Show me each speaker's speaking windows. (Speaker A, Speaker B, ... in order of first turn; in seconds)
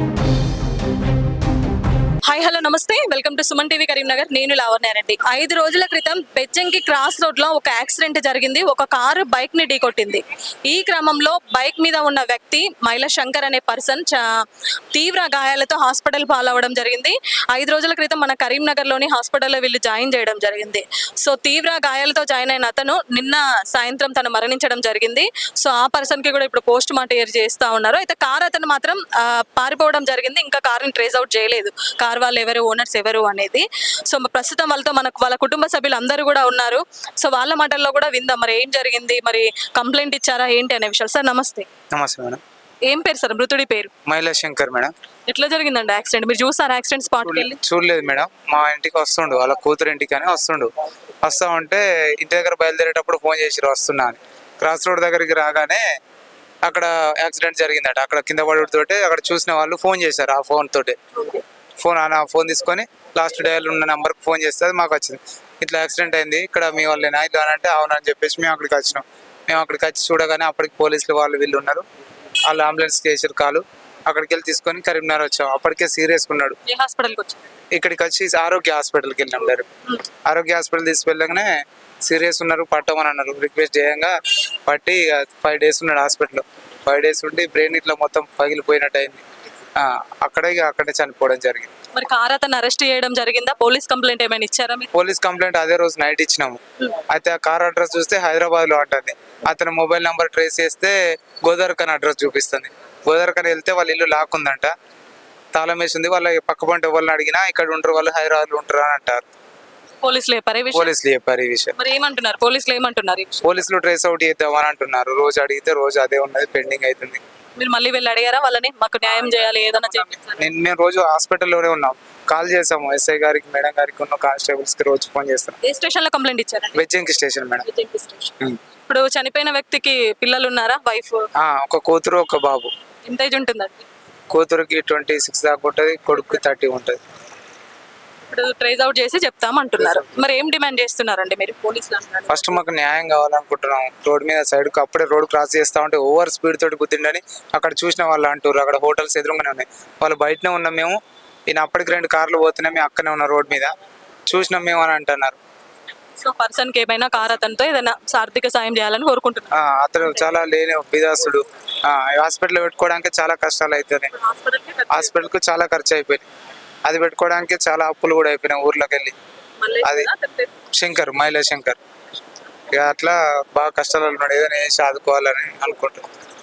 Speaker A: 2.3-14.2, 14.9-41.7, 42.9-43.9, 45.3-47.6, 76.7-77.4, 91.9-94.9, 110.0-110.9, 111.8-113.5, 117.6-120.5, 125.6-126.9, 127.6-131.2, 133.1-133.8, 138.3-142.6, 156.2-160.3, 164.1-165.3, 169.6-170.6
Speaker B: 41.9-42.4, 44.0-44.9, 47.2-50.7, 51.2-55.8, 56.6-61.0, 61.8-71.8, 72.4-76.6, 77.7-79.7, 80.3-81.5, 82.0-84.1, 84.7-89.2, 89.8-91.7, 94.9-104.7, 105.5-109.2, 110.7-111.7, 113.4-117.2, 120.4-125.6, 126.7-127.7, 131.4-132.7, 134.3-137.0, 142.3-151.0, 151.5-153.7, 154.3-155.4, 159.5-164.1, 164.9-166.3, 166.8-169.1, 169.8-170.1, 170.7-171.8, 172.7-176.1